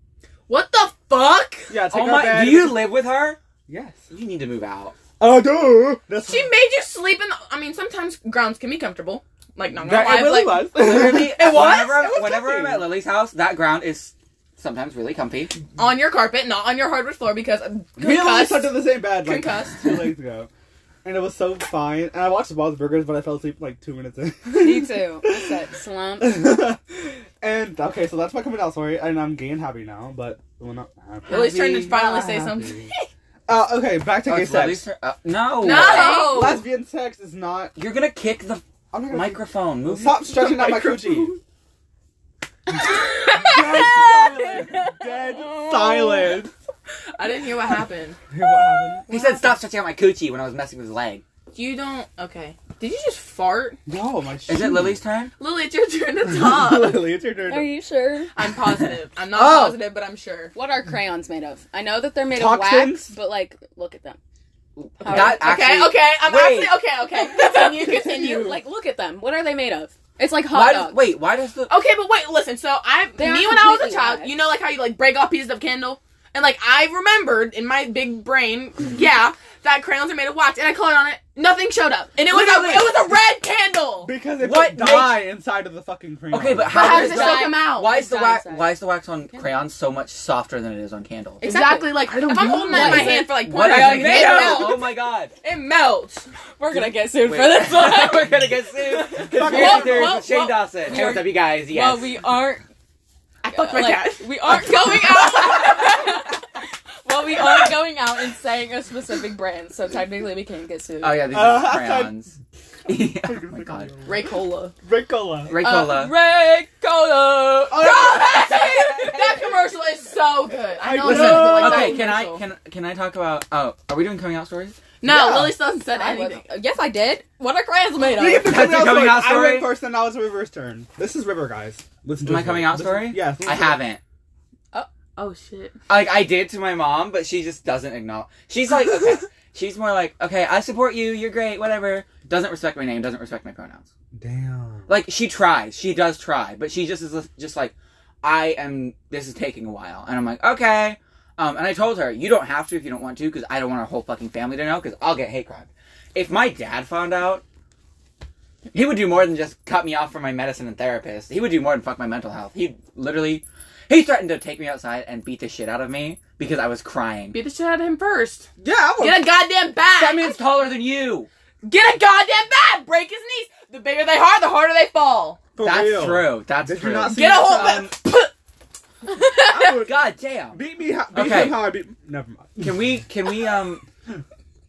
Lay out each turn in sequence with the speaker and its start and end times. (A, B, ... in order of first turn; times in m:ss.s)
0:00.5-0:01.7 A
0:01.7-0:02.9 B
0:01.9-0:03.4 C
0:03.7-0:04.0 B
0:04.1-0:05.0 C
0:05.2-0:06.5 B
0:06.3-0:12.0 A
0:09.8-0:12.9 B
0:10.8-0:15.6 C
0:15.8-0:20.1 A
0:18.0-0:20.5 B
0:21.0-0:25.6 B
0:24.5-0:26.5 D
0:26.2-0:32.9 B
0:31.3-0:33.1 A
0:33.5-0:34.8 B
0:34.2-0:36.3 C
0:35.6-0:36.6 A
0:35.7-0:36.6 D
0:36.1-0:37.8 B
0:37.8-0:40.3 C
0:38.9-0:41.4 B
0:40.3-0:41.3 A
0:42.9-0:46.4 A
0:43.3-0:46.5 B
0:43.9-0:44.8 D
0:47.2-0:48.2 A
0:48.3-0:49.0 B
0:49.1-0:51.2 C
0:51.5-0:53.8 A
0:53.9-0:55.0 B
0:54.5-0:55.3 C
0:55.4-0:57.1 A
0:56.2-0:57.7 B
0:57.4-0:58.3 D
0:58.4-1:00.5 A
0:59.3-0:59.8 B
1:00.6-1:04.2 D
1:02.3-1:03.1 B
1:04.8-1:06.8 C
1:05.0-1:05.6 D
1:05.1-1:08.6 A
1:07.2-1:11.0 D
1:10.5-1:11.7 C
1:11.7-1:24.1 A
1:13.2-1:14.3 D
1:22.3-1:22.9 C
1:24.0-1:27.0 B
1:24.4-1:25.3 C
1:26.3-1:31.5 C
1:26.7-1:27.9 A
1:26.7-1:28.7 D
1:31.4-1:34.8 D
1:31.4-1:36.3 A
1:32.0-1:33.3 B
1:32.7-1:35.3 C
1:36.6-1:38.5 D
1:36.7-1:42.1 C
1:39.2-1:40.2 B
1:39.4-1:40.6 A
1:39.4-1:40.3 D
1:40.8-1:42.6 D
1:43.4-1:46.2 A
1:43.5-1:51.3 D
1:47.3-1:47.7 A
1:51.0-1:53.9 C
1:51.3-1:52.1 B
1:53.2-1:54.2 B
1:54.1-1:54.7 A
1:54.8-1:55.6 B
1:55.5-1:56.1 C
1:55.6-1:57.9 D
1:57.7-2:02.4 A
1:57.8-1:58.3 B
1:58.3-1:59.4 C
2:00.8-2:02.0 B
2:01.0-2:04.8 C
2:05.0-2:06.5 A
2:05.0-2:05.6 B
2:05.9-2:08.4 D
2:08.1-2:13.8 B
2:08.4-2:09.7 C
2:12.2-2:14.0 C
2:15.2-2:15.8 A
2:15.9-2:23.9 C
2:24.1-2:24.9 B
2:24.9-2:37.4 C
2:38.7-2:47.4 C
2:47.3-2:50.4 A
2:48.6-2:49.3 B
2:50.0-2:51.3 C
2:51.6-2:55.4 A
2:55.6-2:57.7 B
2:55.6-2:58.0 C
2:57.1-2:58.3 A
2:59.1-2:59.8 A
2:59.4-3:02.8 B
2:59.7-3:00.6 C
3:01.1-3:01.8 C
3:02.6-3:03.8 C